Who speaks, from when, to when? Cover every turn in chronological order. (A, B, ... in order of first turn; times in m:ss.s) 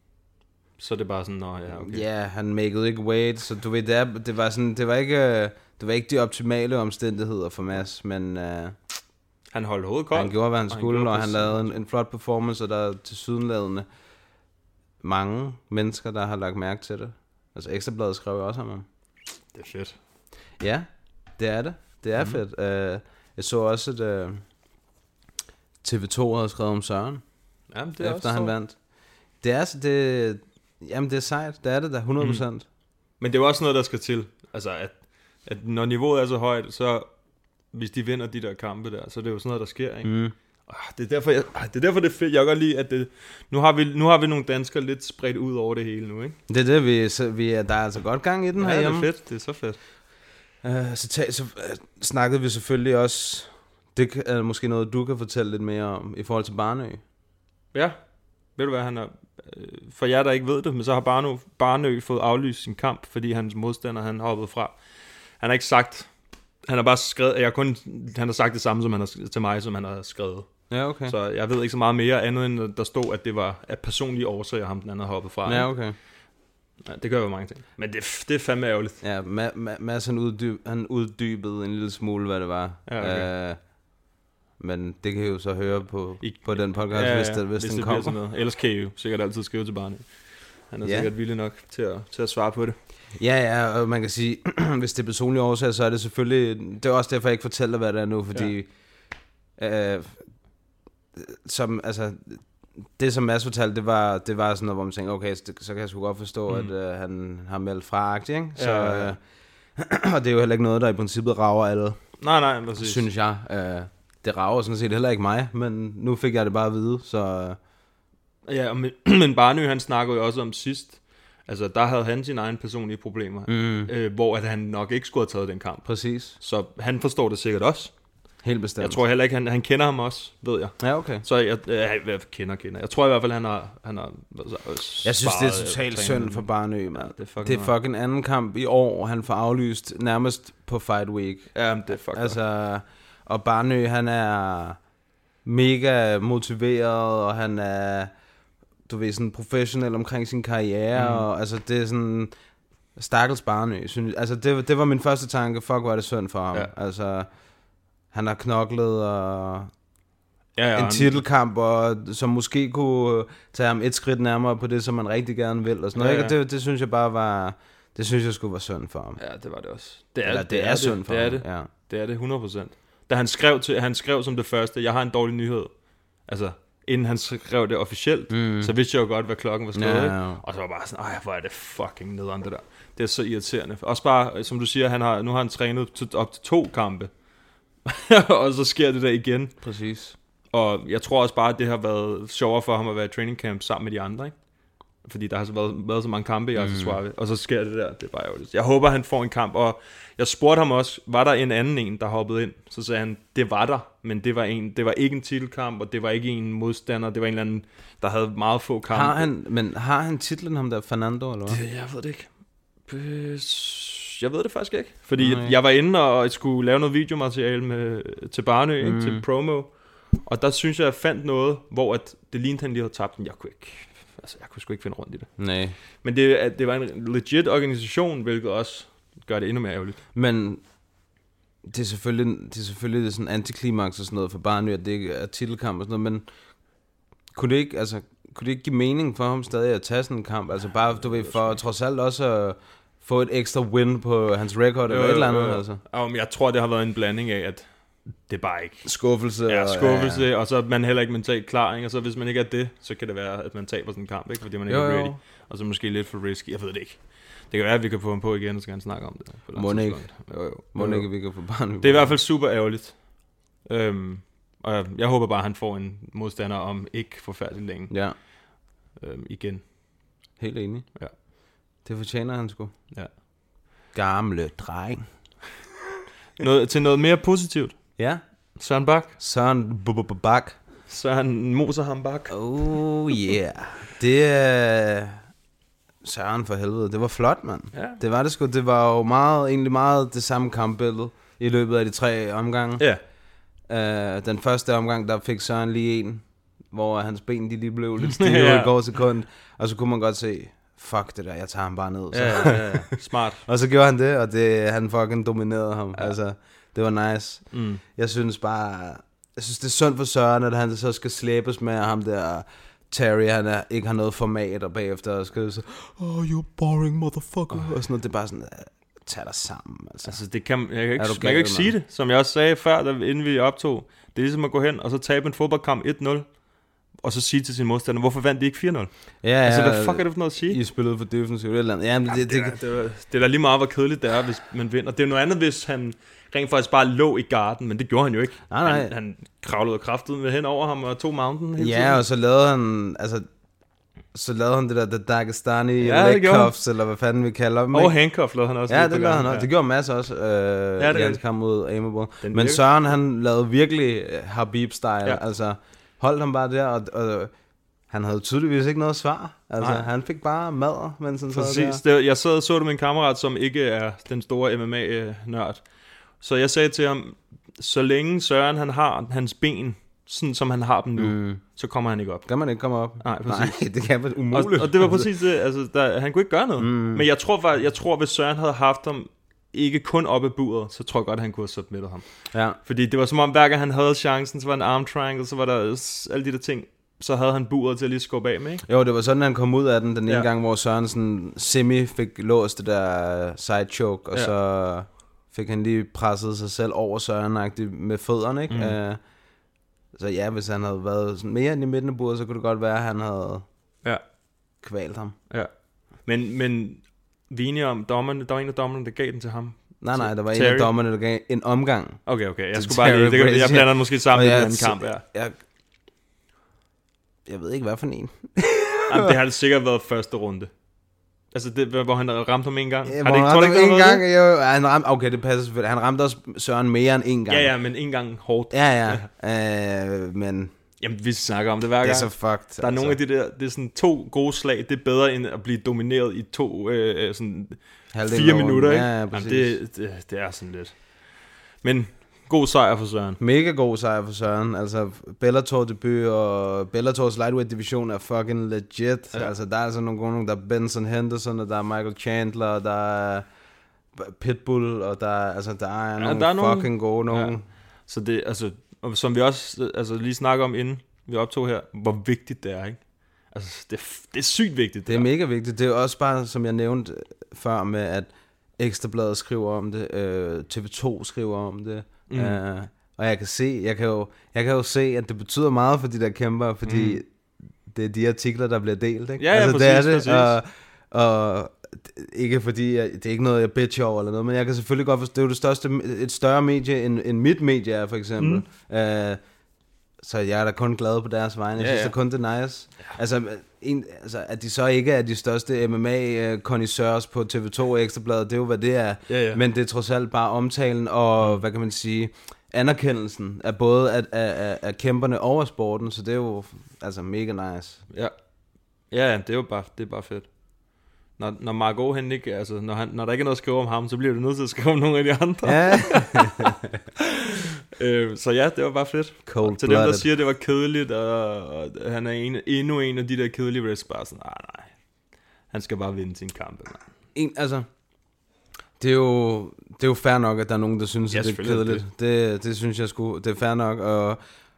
0:00.8-0:02.0 A
0:01.7-0:08.8 B
0:09.5-0:11.7 A
0:10.1-0:13.8 B
0:15.0-0:18.8 B
0:19.5-0:19.9 A
0:20.6-0:24.4 B
0:25.8-0:27.2 B
0:27.7-0:28.5 A
0:28.0-0:28.8 B
0:29.4-0:32.6 B
0:33.2-0:37.1 A
0:37.7-0:40.1 A
0:40.0-0:40.3 B
0:40.7-0:46.4 A
0:46.5-0:49.1 B
0:48.6-0:49.8 A
0:50.6-0:57.0 B
0:58.5-1:04.8 A
1:05.4-1:06.1 A
1:06.6-1:10.5 A
1:10.7-1:11.1 B
1:11.0-1:15.7 A
1:15.4-1:16.0 B
1:16.8-1:19.0 A
1:19.0-1:23.6 B
1:22.8-1:23.3 A
1:24.6-1:28.2 B
1:26.2-1:32.8 A
1:30.8-1:31.1 B
1:33.2-1:38.7 B
1:39.6-1:40.2 B
1:41.2-1:42.4 B
1:43.0-1:49.2 B
1:48.6-1:49.1 A
1:49.8-1:52.0 B
1:52.2-1:53.0 A
1:52.8-1:57.6 B
1:58.5-2:07.9 A
2:03.5-2:03.9 B
2:05.8-2:06.4 B
2:08.4-2:09.0 B
2:08.8-2:17.7 A
2:10.8-2:11.2 B
2:15.0-2:24.8 B
2:21.5-2:22.4 A
2:25.4-2:28.1 B
2:28.8-2:32.3 B
2:30.9-2:31.2 A
2:33.0-2:37.3 B
2:38.1-2:39.7 B
2:40.6-2:41.2 A
2:40.7-2:49.2 B
2:45.9-2:46.4 A
2:49.2-3:07.1 A
2:50.2-2:51.7 B
2:58.3-2:58.7 B
2:59.7-3:00.4 B
3:07.8-3:09.5 A
3:09.6-3:10.2 B
3:10.5-3:14.3 A
3:15.0-3:29.3 A
3:16.6-3:17.0 B
3:28.9-3:31.6 B
3:31.5-3:32.3 A
3:32.8-3:39.7 A
3:35.2-3:35.5 B
3:38.8-3:39.2 B
3:40.2-3:45.3 A
3:45.4-3:45.8 B
3:46.0-3:50.0 A
3:50.1-3:50.6 B
3:51.6-3:56.2 B
3:57.3-4:05.8 B
4:00.9-4:01.6 A
4:04.9-4:07.7 A
4:08.2-4:08.9 A
4:08.8-4:10.2 B
4:09.4-4:21.1 A
4:14.7-4:15.2 B
4:19.5-4:22.2 B
4:21.8-4:27.9 A
4:27.9-4:28.2 B
4:29.0-4:29.6 A
4:30.4-4:30.9 B
4:31.8-4:32.7 B
4:33.9-4:35.0 B
4:36.4-4:37.9 A
4:38.0-4:38.2 B
4:38.6-4:39.1 A
4:39.2-4:40.6 B
4:40.9-4:42.3 A
4:42.3-4:45.2 B
4:46.0-4:52.9 B
4:47.7-4:48.0 A
4:53.7-5:02.9 B
4:58.0-4:58.7 A
5:02.1-5:03.4 A
5:03.4-5:20.2 B
5:07.5-5:07.8 A
5:20.0-5:26.2 A
5:21.0-5:21.7 B
5:27.0-5:28.9 A
5:29.2-5:32.6 B
5:29.4-5:30.6 A
5:32.1-5:42.0 A
5:38.5-5:38.9 B
5:41.6-5:43.3 B
5:44.1-5:48.0 B
5:45.8-5:46.5 A
5:47.7-5:49.5 A
5:48.7-5:57.3 B
5:50.8-5:51.2 A
5:52.2-5:52.6 A
5:57.9-6:01.8 B
5:59.6-5:59.9 A
6:01.3-6:05.6 A
6:06.2-6:12.3 A
6:11.0-6:11.4 B
6:12.2-6:15.1 B
6:13.0-6:13.6 A
6:14.3-6:22.0 A
6:16.6-6:17.0 B
6:22.3-6:22.6 B
6:22.6-6:28.6 A
6:28.6-6:39.0 B
6:38.5-6:38.8 A
6:39.9-6:43.4 B
6:44.6-6:45.2 B
6:45.3-6:50.7 A
6:49.8-6:55.4 B
6:52.0-6:55.0 A
6:57.2-6:59.1 B
6:58.9-7:00.5 A
7:01.3-7:04.0 A
7:02.9-7:07.5 B
7:07.3-7:09.1 A
7:08.5-7:10.5 B
7:10.8-7:23.2 A
7:11.8-7:13.0 B
7:17.9-7:19.6 B
7:23.2-7:33.2 B
7:33.9-7:37.4 B
7:36.0-7:37.3 A
7:37.8-7:45.1 A
7:44.9-7:57.0 B
7:52.1-7:52.4 A
7:56.6-7:57.0 A
7:57.6-8:09.2 B
7:59.2-8:00.4 A
8:08.2-8:08.4 A
8:10.0-8:27.8 B
8:11.6-8:11.9 A
8:19.1-8:19.4 A
8:28.9-8:30.3 A
8:31.2-8:36.4 A
8:35.4-8:36.6 B
8:37.8-8:44.7 A
8:39.2-8:40.1 B
8:45.5-8:46.8 A
8:47.1-8:47.7 B
8:48.8-8:54.2 B
8:51.1-8:51.8 A